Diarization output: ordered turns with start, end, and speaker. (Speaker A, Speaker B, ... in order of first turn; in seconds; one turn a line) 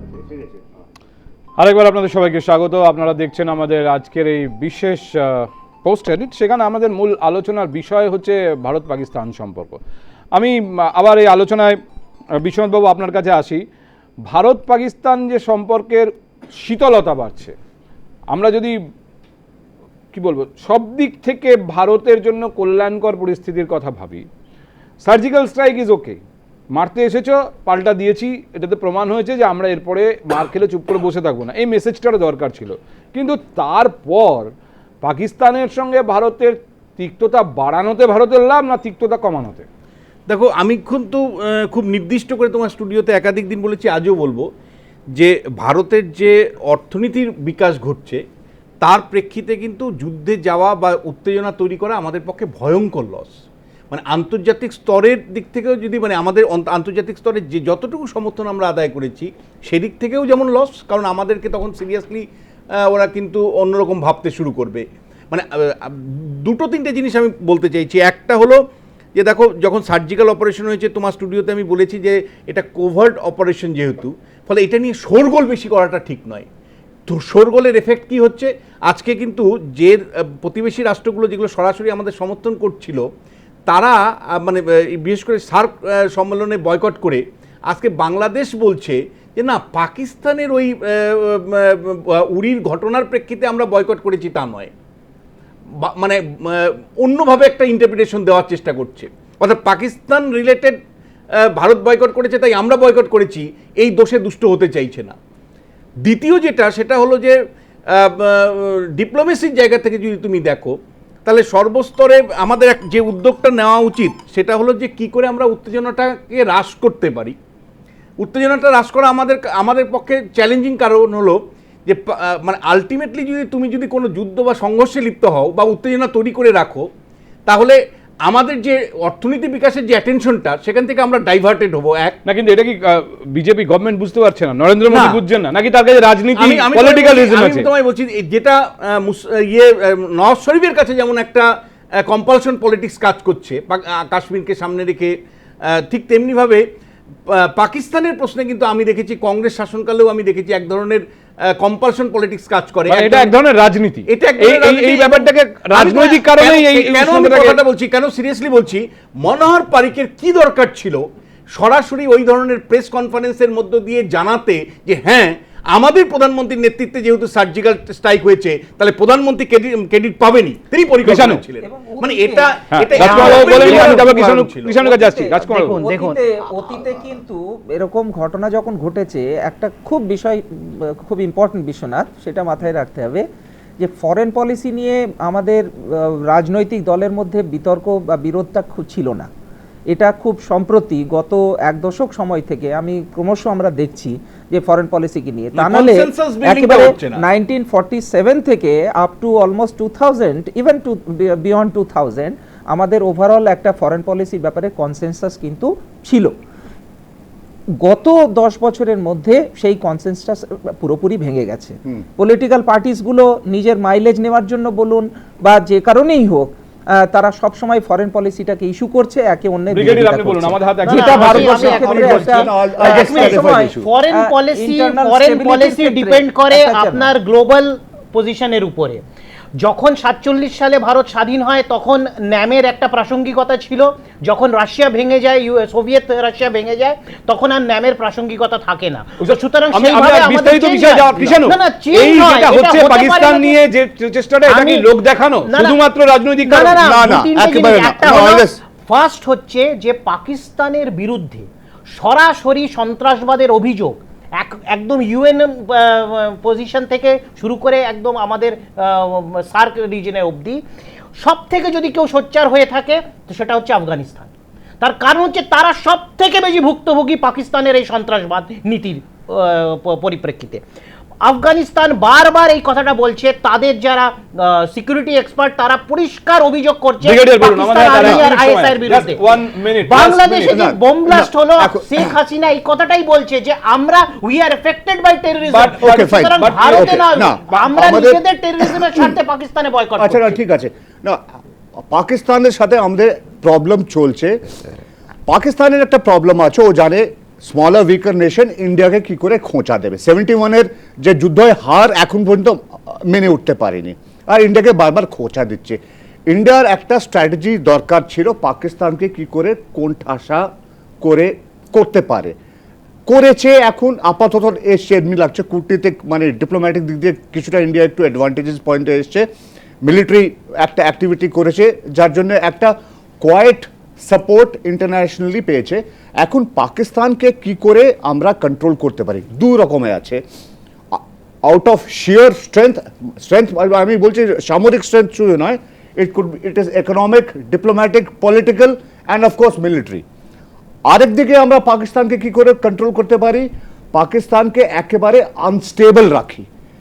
Speaker A: 0.1-0.5
Speaker B: 1.6-9.8
Speaker B: 10.3-11.8
Speaker B: 12.4-13.6
Speaker B: 14.3-17.5
Speaker B: 18.3-18.7
Speaker B: 20.1-24.2
Speaker B: 25.0-26.2
Speaker B: 26.8-34.5
Speaker B: 35.0-39.6
Speaker C: 40.3-44.5
Speaker C: 45.2-48.2
Speaker C: 48.8-53.4
Speaker C: 53.9-62.2
Speaker C: 62.8-68.6
Speaker C: 69.1-76.5
Speaker C: 77.1-83.0
Speaker C: 83.7-94.7
Speaker C: 95.8-100.8
Speaker C: 101.5-105.1
Speaker C: 106.0-107.3
Speaker C: 107.9-117.4
Speaker C: 118.2-126.9
Speaker C: 127.5-132.2
Speaker B: 132.2-137.7
Speaker C: 134.9-135.2
Speaker C: 136.3-141.4
Speaker C: 142.0-145.1
Speaker C: 145.6-146.7
Speaker C: 147.3-153.3
Speaker B: 152.9-157.6
Speaker C: 154.1-174.7
Speaker B: 171.0-171.4
Speaker D: 171.6-173.7
Speaker B: 172.7-175.8
Speaker E: 173.0-174.0
Speaker D: 174.8-183.2
Speaker E: 175.5-176.2
Speaker D: 183.8-189.3
Speaker D: 189.9-206.3
Speaker C: 195.5-197.2
Speaker D: 207.8-216.5
Speaker D: 217.1-227.1
Speaker B: 219.7-221.8
Speaker E: 220.8-229.0
Speaker A: 221.6-223.9
Speaker E: 229.6-243.6
Speaker B: 239.2-246.8
Speaker E: 244.4-244.9
Speaker E: 245.5-245.8
Speaker E: 246.4-260.6
Speaker A: 246.6-248.6
Speaker E: 261.2-264.3
Speaker E: 264.8-270.6
Speaker E: 271.2-290.3
Speaker B: 277.0-280.5
Speaker A: 277.9-278.2
Speaker A: 280.3-282.1
Speaker B: 285.5-287.8
Speaker A: 285.8-289.1
Speaker A: 290.0-291.2
Speaker A: 291.8-294.6
Speaker A: 295.3-310.5
Speaker A: 311.0-312.3
Speaker A: 313.1-319.3
Speaker A: 319.8-330.2
Speaker A: 330.9-340.0
Speaker A: 340.9-346.5